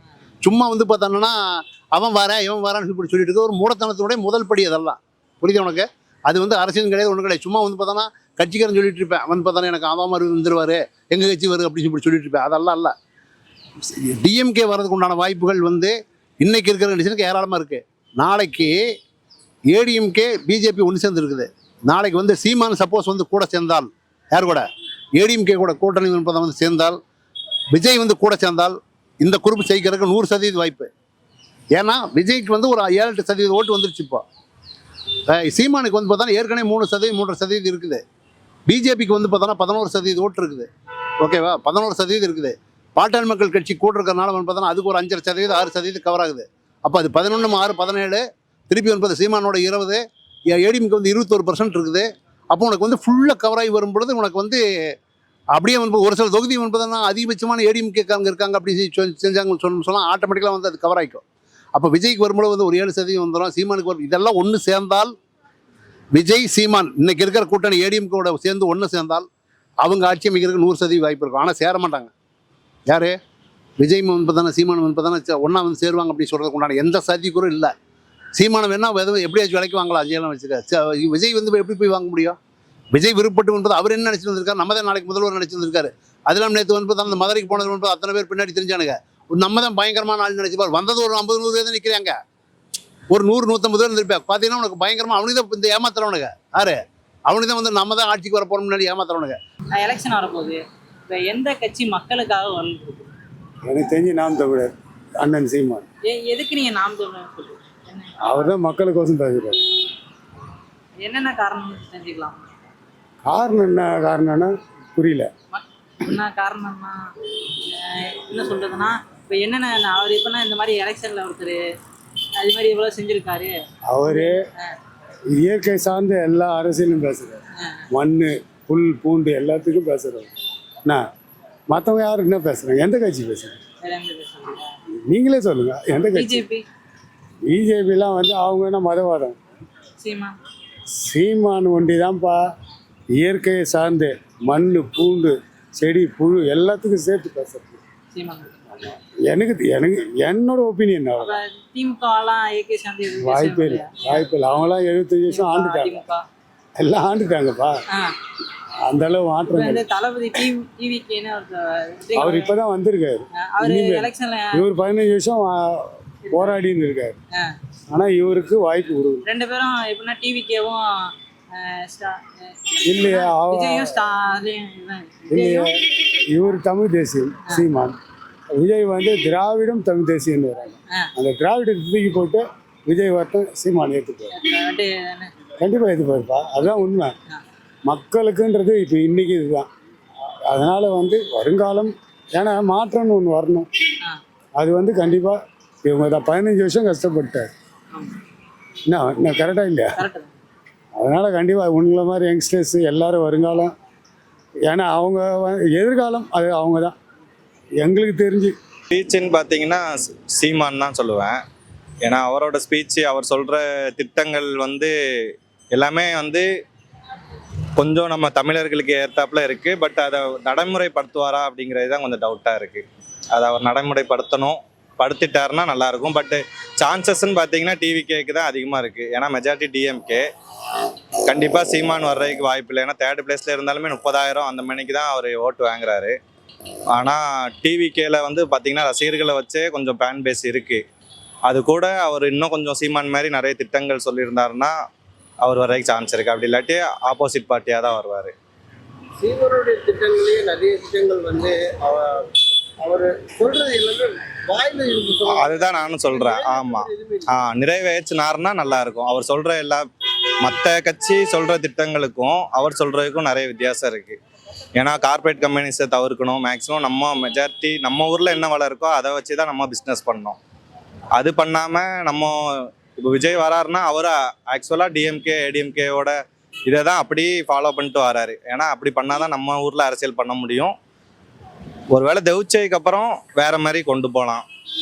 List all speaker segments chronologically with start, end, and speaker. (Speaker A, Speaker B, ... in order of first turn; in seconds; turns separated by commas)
Speaker A: 0.4-12.9, Speaker A: 14.1-19.0, Speaker A: 19.7-27.0, Speaker A: 27.7-30.9, Speaker A: 31.7-34.2, Speaker A: 35.3-38.0, Speaker A: 38.7-40.7, Speaker A: 41.2-54.6, Speaker A: 55.5-61.2, Speaker A: 61.7-65.1, Speaker A: 66.1-69.3, Speaker A: 69.8-72.1, Speaker A: 72.8-73.2, Speaker A: 73.8-77.7, Speaker A: 78.3-82.4, Speaker A: 82.9-92.2, Speaker A: 93.1-99.4, Speaker B: 99.7-103.1, Speaker C: 103.6-105.8, Speaker B: 106.1-108.5, Speaker C: 108.2-109.6, Speaker B: 111.0-112.4, Speaker C: 113.2-115.3, Speaker B: 115.5-117.0, Speaker B: 117.7-121.6, Speaker B: 122.4-124.7, Speaker C: 123.9-124.4, Speaker C: 125.4-127.4, Speaker C: 127.9-130.3, Speaker C: 131.7-133.6, Speaker B: 133.8-134.7, Speaker C: 135.1-136.4, Speaker B: 136.0-136.6, Speaker C: 137.5-139.4, Speaker B: 140.0-140.3, Speaker C: 141.0-142.4, Speaker C: 143.2-147.8, Speaker B: 148.1-148.6, Speaker C: 148.9-151.3, Speaker B: 151.2-156.2, Speaker C: 153.2-156.0, Speaker C: 156.8-157.8, Speaker C: 158.9-159.8, Speaker B: 159.4-162.5, Speaker C: 162.2-167.2, Speaker B: 163.4-164.7, Speaker B: 166.3-166.6, Speaker C: 167.9-169.2, Speaker B: 169.2-170.8, Speaker B: 171.6-175.7, Speaker C: 172.8-173.9, Speaker C: 175.3-175.7, Speaker C: 176.3-177.9, Speaker C: 178.6-184.3, Speaker B: 184.3-185.3, Speaker C: 185.6-187.1, Speaker C: 187.9-189.7, Speaker C: 190.5-193.7, Speaker C: 194.6-197.5, Speaker C: 198.9-200.0, Speaker B: 200.0-200.3, Speaker C: 201.0-203.7, Speaker C: 204.7-206.9, Speaker C: 207.8-208.5, Speaker D: 208.9-211.4, Speaker D: 212.0-214.9, Speaker D: 215.7-216.4, Speaker D: 217.8-222.8, Speaker D: 223.3-230.2, Speaker D: 231.3-236.2, Speaker D: 236.9-240.8, Speaker D: 241.5-244.7, Speaker D: 245.4-248.3, Speaker E: 249.2-252.1, Speaker E: 252.8-257.4, Speaker D: 255.3-259.8, Speaker D: 260.4-264.2, Speaker D: 264.8-270.4, Speaker D: 271.2-272.3, Speaker D: 273.0-276.1, Speaker D: 276.7-280.7, Speaker D: 281.9-284.4